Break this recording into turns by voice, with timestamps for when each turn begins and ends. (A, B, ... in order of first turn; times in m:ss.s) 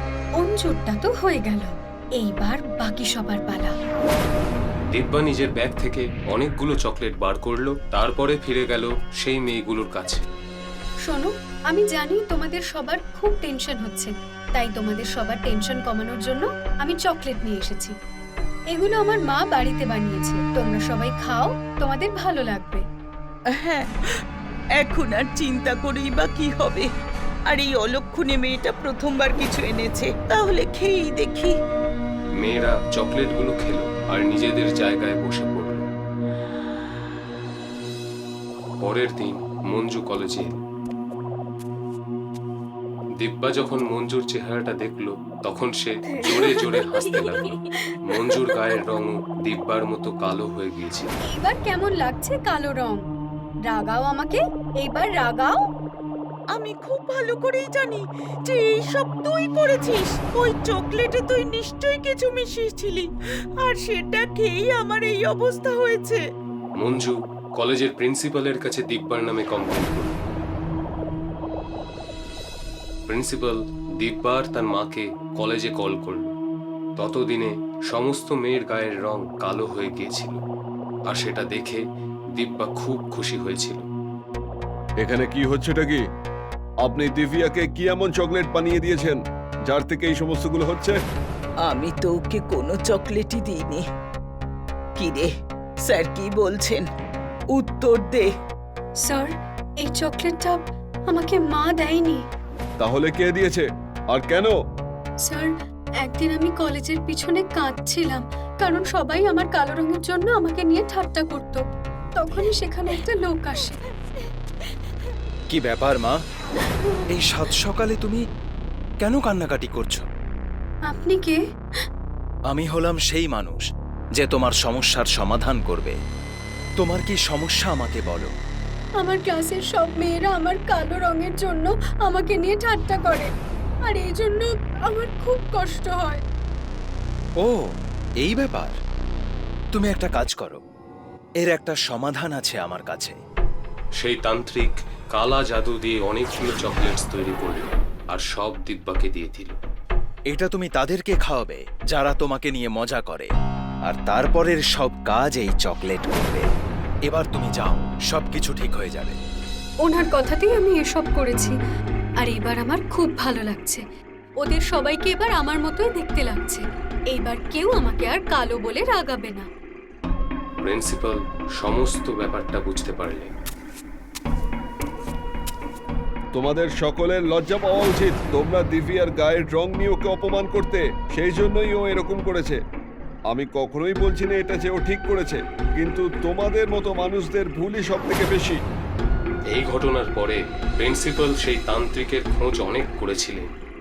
0:00.4-0:03.7 A
0:04.9-0:10.2 B
0:11.0-0:17.9 A
0:18.7-0:22.8 A
0:23.5-0:24.2 C
0:24.8-0:26.9 C
0:27.5-0:31.5 C
0:32.4-0:35.8 B
0:38.8-0:40.6 B
0:43.2-0:51.1 B
0:46.2-0:48.5 A
0:51.3-0:53.0 A
0:53.7-0:55.6 A
0:56.5-1:06.2 C
1:06.8-1:10.2 B
1:13.1-1:16.3 B
1:17.0-1:20.4 B
1:21.1-1:21.8 B
1:22.4-1:23.8 B
1:25.0-1:26.0 D
1:26.8-1:31.0 D
1:31.6-1:33.8 C
1:35.0-1:35.3 C
1:35.9-1:36.8 C
1:37.5-1:38.3 C
1:39.0-1:42.2 A
1:42.8-1:44.5 D
1:45.2-1:51.6 A
1:52.1-1:53.9 A
1:55.5-1:56.2 E
1:56.6-1:57.0 A
1:57.1-1:58.2 E
1:59.0-2:00.0 E
2:00.9-2:01.4 A
2:02.5-2:03.6 E
2:04.2-2:06.0 E
2:06.8-2:08.3 E
2:09.0-2:13.3 A
2:13.8-2:16.2 A
2:17.4-2:17.7 E
2:18.2-2:18.7 E
2:19.7-2:20.6 E
2:21.4-2:23.2 E
2:24.0-2:29.6 B
2:30.3-2:33.3 E
2:33.9-2:36.4 E
2:37.0-2:39.2 E
2:39.8-2:41.6 A
2:42.2-2:43.8 A
2:44.4-2:49.5 A
2:50.6-2:53.3 B
2:56.3-3:02.6 D
3:03.3-3:08.6 D
3:09.5-3:13.5 B